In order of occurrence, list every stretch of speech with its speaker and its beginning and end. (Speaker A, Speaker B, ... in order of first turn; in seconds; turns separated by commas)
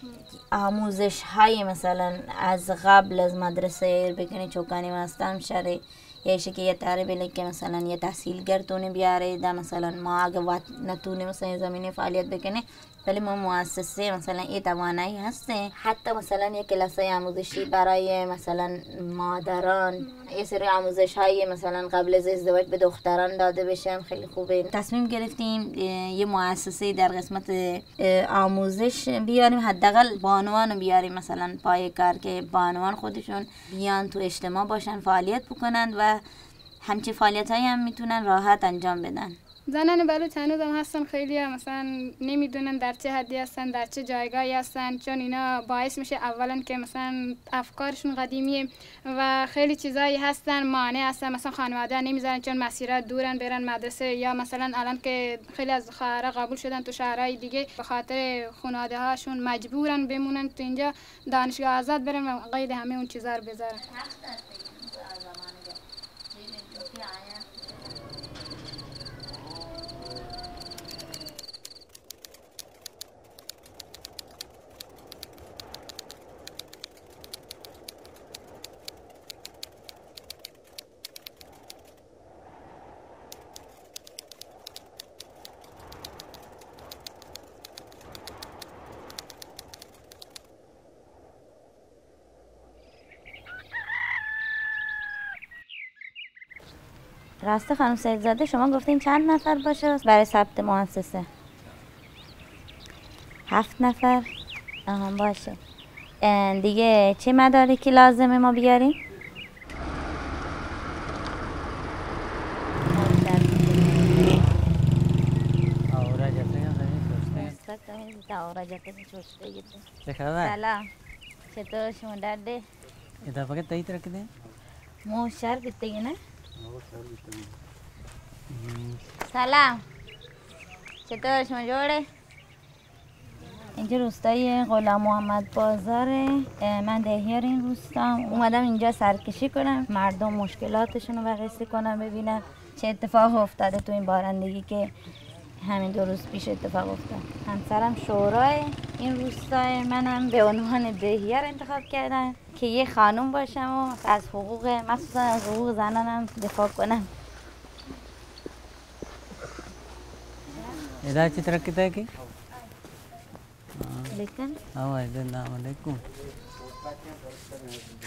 Speaker A: 0.3-36.2, Speaker A: 36.8-39.4, Speaker B: 39.7-63.8, Speaker A: 63.8-65.8, Speaker A: 66.3-67.8, Speaker A: 97.4-101.3, Speaker A: 103.5-104.3, Speaker A: 104.9-105.6, Speaker A: 106.2-109.0, Speaker A: 112.9-114.6, Speaker C: 115.9-117.5, Speaker A: 117.3-119.8, Speaker C: 120.0-120.5, Speaker A: 120.4-120.8, Speaker A: 121.5-122.6, Speaker C: 123.2-124.3, Speaker A: 125.0-126.2, Speaker C: 126.6-127.5, Speaker C: 128.5-129.0, Speaker A: 129.2-129.8, Speaker A: 131.1-132.1, Speaker A: 133.8-144.9, Speaker A: 145.6-157.1, Speaker C: 161.0-162.1, Speaker C: 163.8-164.1, Speaker A: 164.1-164.6, Speaker C: 164.7-166.0